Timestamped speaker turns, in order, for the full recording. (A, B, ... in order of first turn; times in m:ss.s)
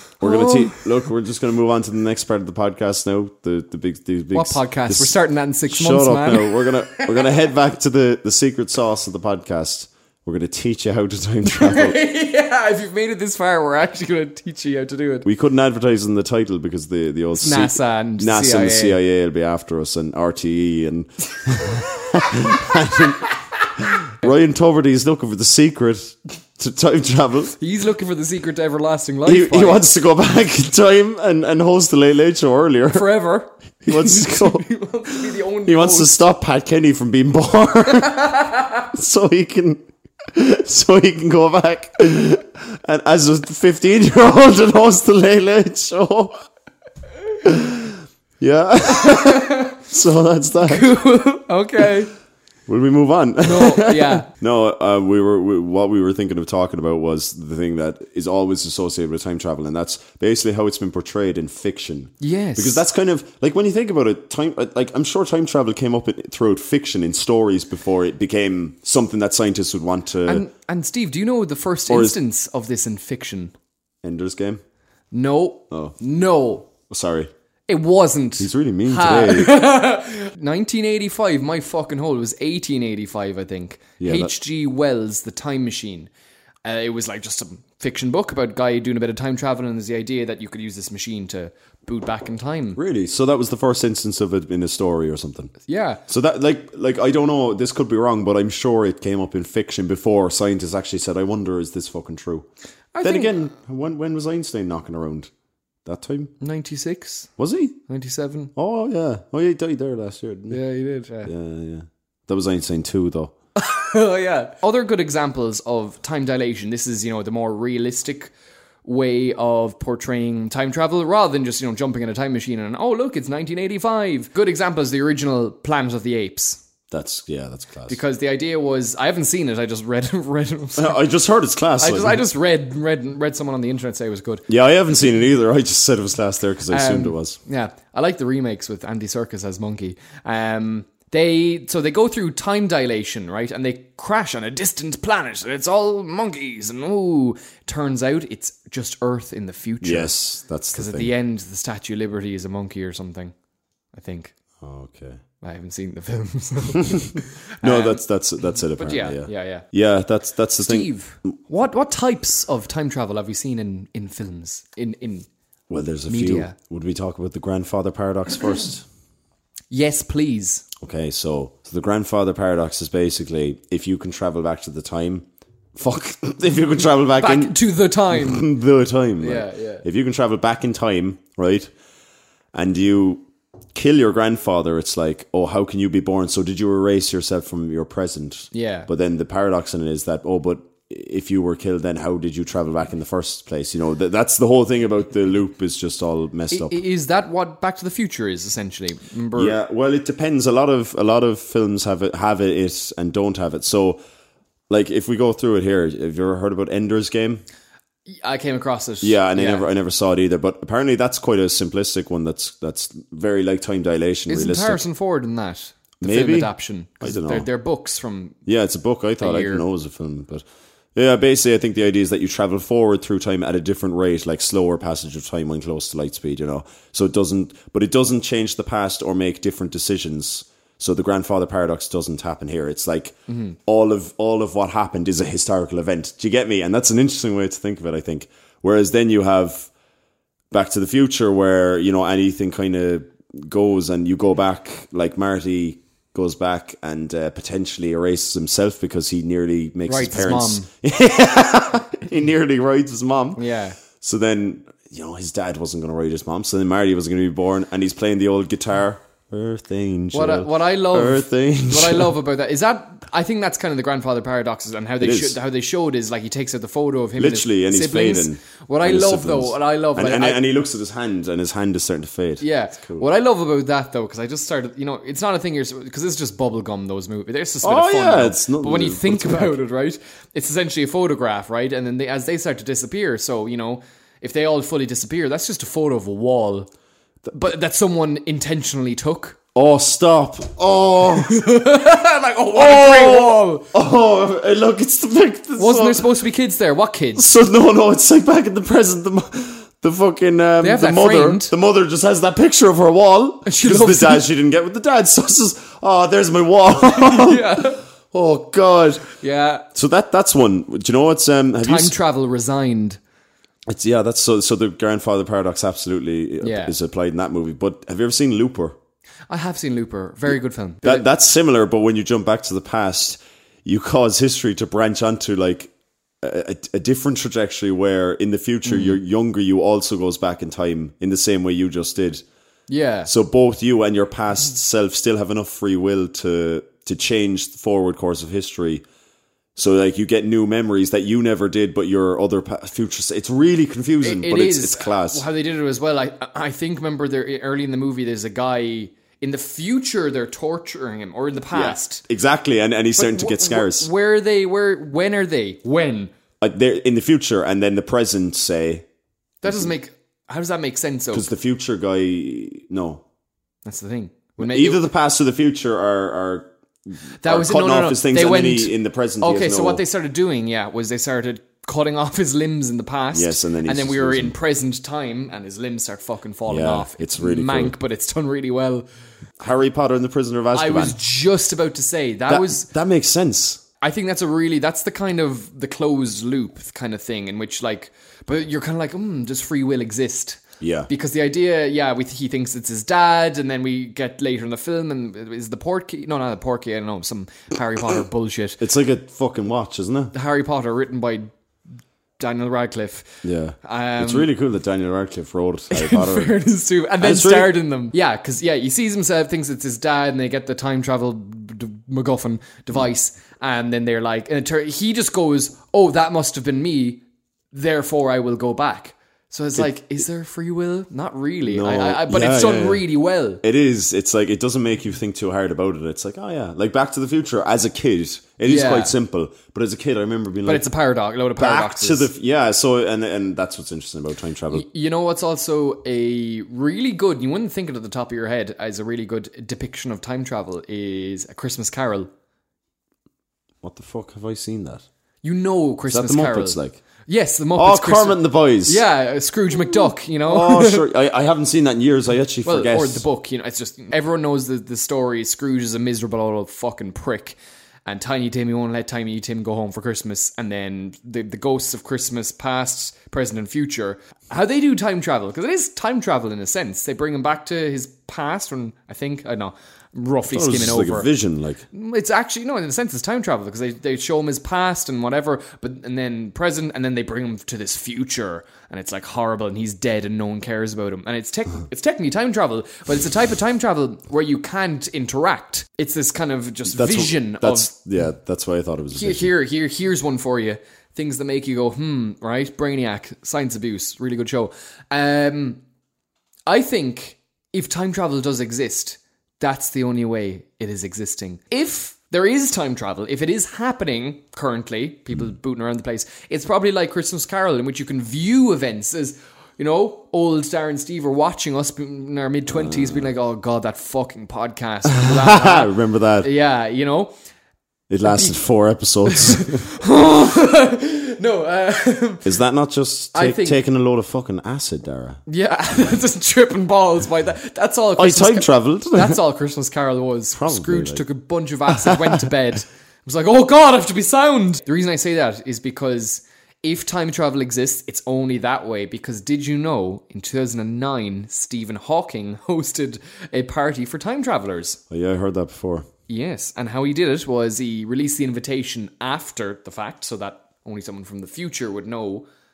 0:00.2-0:05.2 A
0:00.2-0:00.9 B
0:04.3-0:07.3 B
0:05.7-0:12.0 A
0:11.5-0:15.3 B
0:15.2-0:27.6 A
0:17.4-0:19.0 B
0:27.6-0:29.8 B
0:29.3-0:33.1 A
0:32.9-0:36.1 B
0:33.8-0:34.6 A
0:35.3-0:46.4 A
0:38.1-0:38.8 B
0:47.4-0:50.9 A
0:49.0-0:49.8 B
0:50.6-0:52.1 B
0:52.7-1:10.4 A
0:53.4-0:54.3 B
1:02.2-1:02.8 B
1:10.3-1:13.5 B
1:11.9-1:12.2 A
1:14.0-1:14.6 A
1:15.1-1:16.7 B
1:15.7-1:16.0 A
1:16.9-1:17.3 A
1:17.7-1:26.1 B
1:18.4-1:19.6 A
1:24.0-1:24.3 A
1:26.6-1:32.8 B
1:32.8-1:35.5 A
1:35.7-1:36.0 B
1:36.1-1:42.5 A
1:43.0-1:43.4 B
1:43.0-1:45.3 A
1:45.8-1:46.3 A
1:46.4-1:47.3 B
1:47.4-1:47.8 A
1:47.9-1:48.5 B
1:48.6-1:50.6 A
1:50.5-1:51.3 B
1:51.2-1:53.3 A
1:53.6-1:58.3 B
1:58.8-2:06.6 B
2:06.9-2:08.0 A
2:07.9-2:11.0 B
2:10.8-2:12.2 A
2:11.8-2:14.5 B
2:14.5-2:17.4 A
2:16.7-2:30.2 B
2:29.8-2:31.1 A
2:30.7-2:33.3 B
2:33.9-2:34.3 B
2:34.6-2:35.2 A
2:35.4-2:38.0 B
2:37.6-2:40.9 A
2:38.8-2:39.6 B
2:40.6-2:45.3 B
2:45.7-2:48.8 A
2:46.1-2:46.6 B
2:49.7-2:50.7 B
2:50.8-2:57.6 A
2:57.2-2:58.5 B
2:58.1-3:01.7 A
2:59.2-2:59.8 B
3:02.5-3:16.8 A
3:08.5-3:08.9 B
3:16.5-3:19.6 B
3:19.4-3:24.0 A
3:24.7-3:27.4 A
3:28.1-3:29.7 B
3:29.0-3:34.8 A
3:34.3-3:38.4 B
3:36.0-3:37.5 A
3:38.5-3:59.7 A
3:39.2-3:39.6 B
3:53.3-3:53.6 B
4:00.5-4:13.4 A
4:09.9-4:10.7 B
4:13.4-4:13.8 B
4:14.0-4:22.1 A
4:20.1-4:30.4 B
4:25.0-4:25.4 A
4:27.2-4:33.1 A
4:32.4-4:46.7 B
4:37.6-4:39.6 A
4:47.3-4:49.4 B
4:49.6-4:51.5 A
4:51.2-4:53.7 B
4:52.5-4:56.1 A
4:55.6-4:57.2 B
4:57.2-5:09.1 A
5:00.6-5:01.5 B
5:03.5-5:04.3 B
5:07.0-5:07.8 B
5:09.2-5:09.6 B
5:09.7-5:12.0 A
5:11.6-5:13.0 B
5:13.7-5:18.8 A
5:16.4-5:16.7 B
5:19.3-5:21.0 B
5:20.8-5:25.7 A
5:26.2-5:32.2 A
5:28.6-5:29.0 B
5:32.7-5:33.1 B
5:33.1-5:38.8 A
5:39.6-5:45.2 A
5:44.0-5:52.0 B
5:51.5-5:53.9 A
5:53.0-5:56.1 B
5:56.4-5:58.8 A
5:59.4-6:01.3 B
5:59.4-5:59.7 A
6:01.1-6:03.0 A
6:03.7-6:04.8 B
6:04.4-6:09.8 A
6:07.2-6:18.9 B
6:13.1-6:14.4 A
6:16.5-6:17.8 A
6:19.4-6:21.0 A
6:20.5-6:22.7 B
6:22.3-6:23.6 A
6:23.8-6:38.6 B
6:30.6-6:30.9 A
6:38.6-6:40.1 A
6:40.1-6:41.3 B
6:42.2-6:44.3 B
6:43.2-6:46.4 A
6:45.7-7:03.4 B
6:47.0-6:47.6 A
7:01.5-7:02.9 A
7:03.4-7:10.7 A
7:08.4-7:08.9 B
7:10.5-7:12.1 B
7:11.4-7:14.7 A
7:14.5-7:22.1 B
7:23.6-7:24.8 A
7:25.2-7:30.8 B
7:25.9-7:26.8 A
7:27.6-7:28.8 A
7:30.3-7:33.0 A
7:32.4-7:51.1 B
7:50.3-7:51.6 A
7:51.7-8:07.7 B
8:06.7-8:09.3 A
8:08.9-8:15.6 B
8:16.5-8:37.1 B
8:32.5-8:33.1 A
8:34.9-8:36.3 A
8:37.9-8:39.7 A
8:38.0-8:38.4 B
8:39.1-8:42.3 B
8:42.2-8:45.2 A
8:43.1-8:43.6 B
8:45.3-9:04.8 B
8:48.0-8:49.2 A
8:50.4-8:51.0 A
8:51.7-8:52.3 A
9:04.9-9:05.9 A
9:06.1-9:12.3 B